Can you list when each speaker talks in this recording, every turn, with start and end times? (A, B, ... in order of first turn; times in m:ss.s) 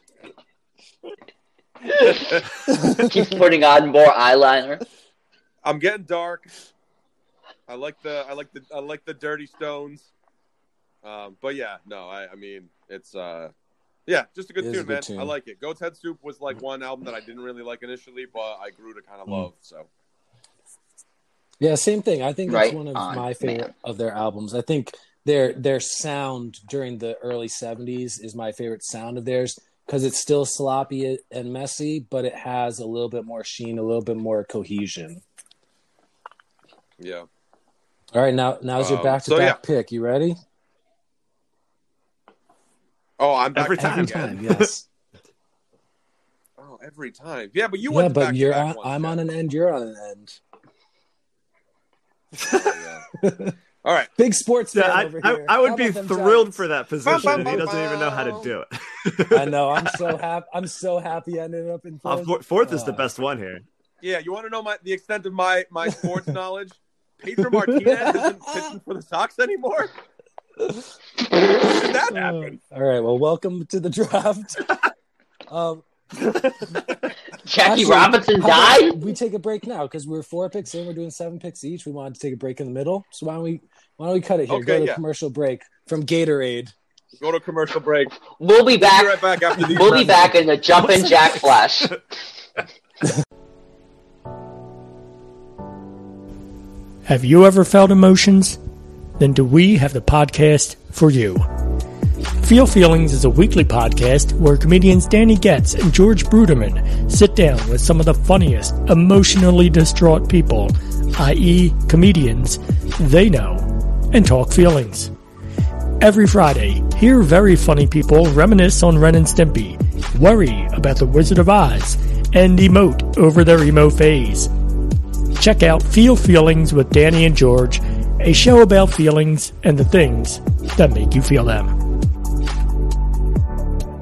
0:01.9-0:02.4 A
0:02.7-0:03.2 B
0:03.0-0:04.8 A
0:05.6-0:06.5 C
0:07.7-0:10.1 C
0:11.0-0:13.5 C
0:14.1-0:19.9 C
0:14.6-0:15.4 B
0:21.6-0:35.2 B
0:22.5-0:23.7 A
0:37.0-0:37.3 C
0:38.1-0:40.4 B
0:38.8-0:39.6 C
0:43.2-0:44.4 C
0:43.6-0:44.7 D
0:43.8-0:44.9 B
0:46.6-0:49.2 C
0:47.9-0:50.4 B
0:52.4-0:53.1 C
0:53.2-0:53.6 B
0:53.8-0:54.1 C
0:54.2-0:56.6 B
0:54.7-1:00.0 D
0:57.0-0:58.5 C
0:57.2-0:57.7 B
0:59.3-1:03.1 B
1:02.0-1:03.6 D
1:04.0-1:09.9 C
1:07.5-1:08.7 B
1:10.6-1:10.9 B
1:11.5-1:12.6 C
1:12.1-1:14.8 B
1:15.5-1:15.8 B
1:17.4-1:19.0 A
1:17.6-1:26.7 B
1:24.5-1:25.0 C
1:27.2-1:28.2 C
1:28.4-1:32.0 A
1:28.8-1:30.4 C
1:37.0-1:38.6 E
1:39.2-1:41.5 E
1:42.4-1:55.1 E
1:56.0-2:04.5 E
2:05.4-2:11.8 E